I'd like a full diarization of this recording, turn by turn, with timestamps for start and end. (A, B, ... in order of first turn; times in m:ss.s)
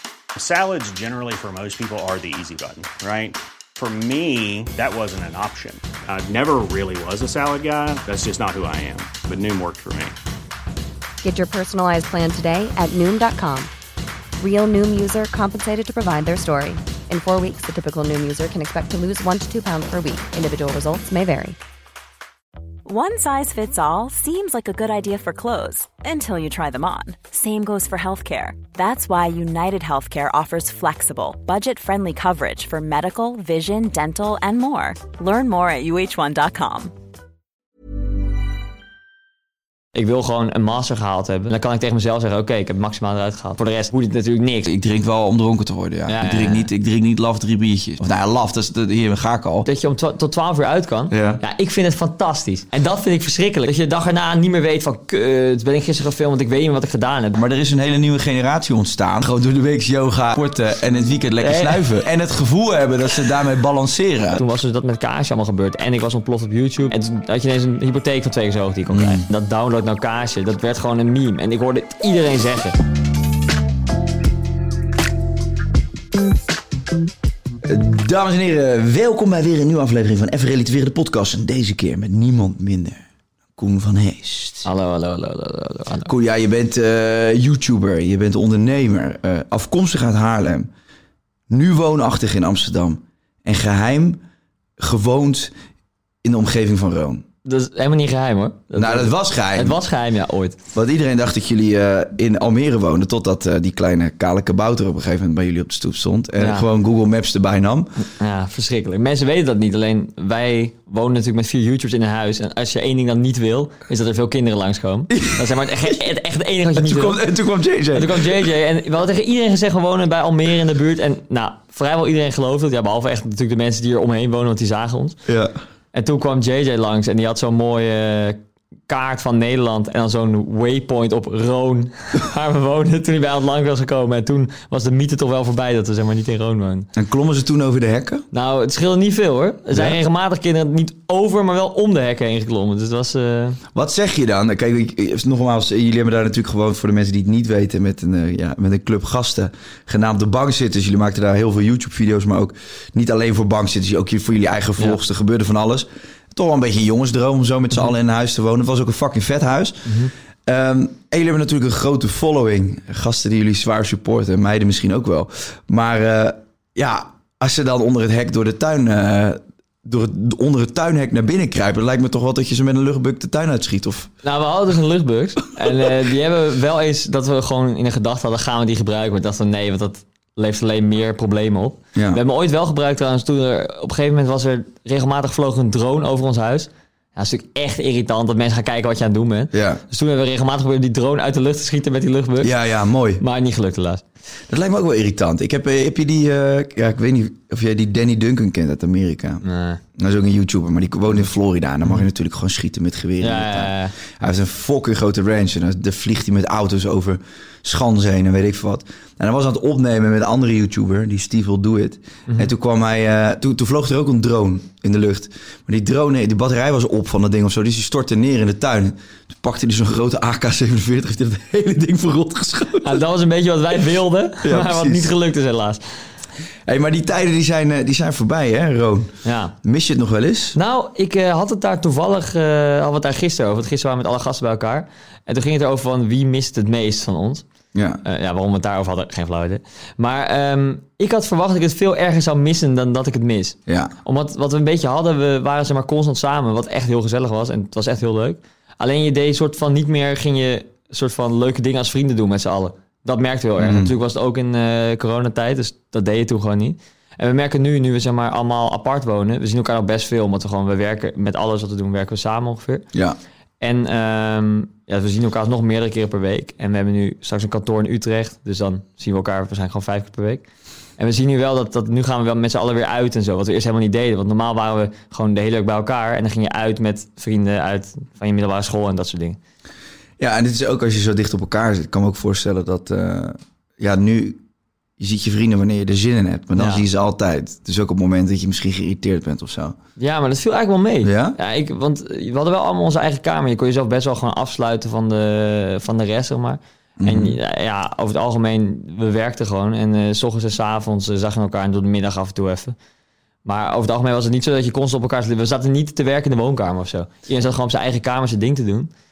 0:00.3-0:10.1 A
0:11.2-0:13.7 B
0:14.4-0:21.6 B
0:22.8-0:36.9 C
0:39.9-0:44.7 D
0:44.7-0:49.7 E
0:46.1-0:46.7 D
0:49.6-0:57.4 D
0:51.1-0:51.4 E
0:57.3-1:04.4 E
1:01.4-1:01.8 D
1:04.3-1:12.8 D
1:08.9-1:09.2 E
1:17.6-1:23.0 E
1:23.6-1:24.7 E
1:24.6-1:26.1 D
1:26.0-1:30.7 E
1:31.5-1:34.2 E
1:34.8-1:35.5 E
1:36.2-1:37.2 E
1:37.4-1:40.6 D
1:38.8-1:39.8 E
1:40.7-1:47.9 E
1:46.4-1:46.7 D
1:48.2-1:57.2 D
1:55.1-1:55.9 E
1:56.8-1:58.4 E
1:57.9-2:05.2 D
2:05.2-2:05.5 E
2:05.9-2:16.9 D
2:16.9-2:18.2 E
2:18.3-2:23.6 D
2:19.7-2:20.0 E
2:23.7-2:54.1 E
2:39.8-2:40.1 D
2:54.2-3:12.5 D
3:01.9-3:02.2 E
3:09.5-3:09.8 E
3:12.4-3:13.2 E
3:13.2-3:14.0 D
3:14.5-3:19.4 E
3:19.4-3:19.8 D
3:20.0-3:43.0 E
3:23.2-3:23.9 D
3:42.8-3:46.1 D
3:44.4-3:45.1 E
3:46.7-3:49.1 E
3:49.2-3:49.5 D
3:49.6-3:50.6 E
3:50.5-3:57.4 D
3:57.7-3:58.0 E
3:58.0-4:22.8 D
4:03.7-4:03.9 E
4:13.6-4:13.9 E
4:23.6-4:30.4 D
4:31.0-4:39.4 D
4:40.2-4:44.4 E
4:45.0-4:49.8 E
4:46.6-4:46.8 D
4:50.0-5:02.8 D
4:51.0-4:51.4 E
4:57.0-4:57.4 E
5:03.4-5:08.9 D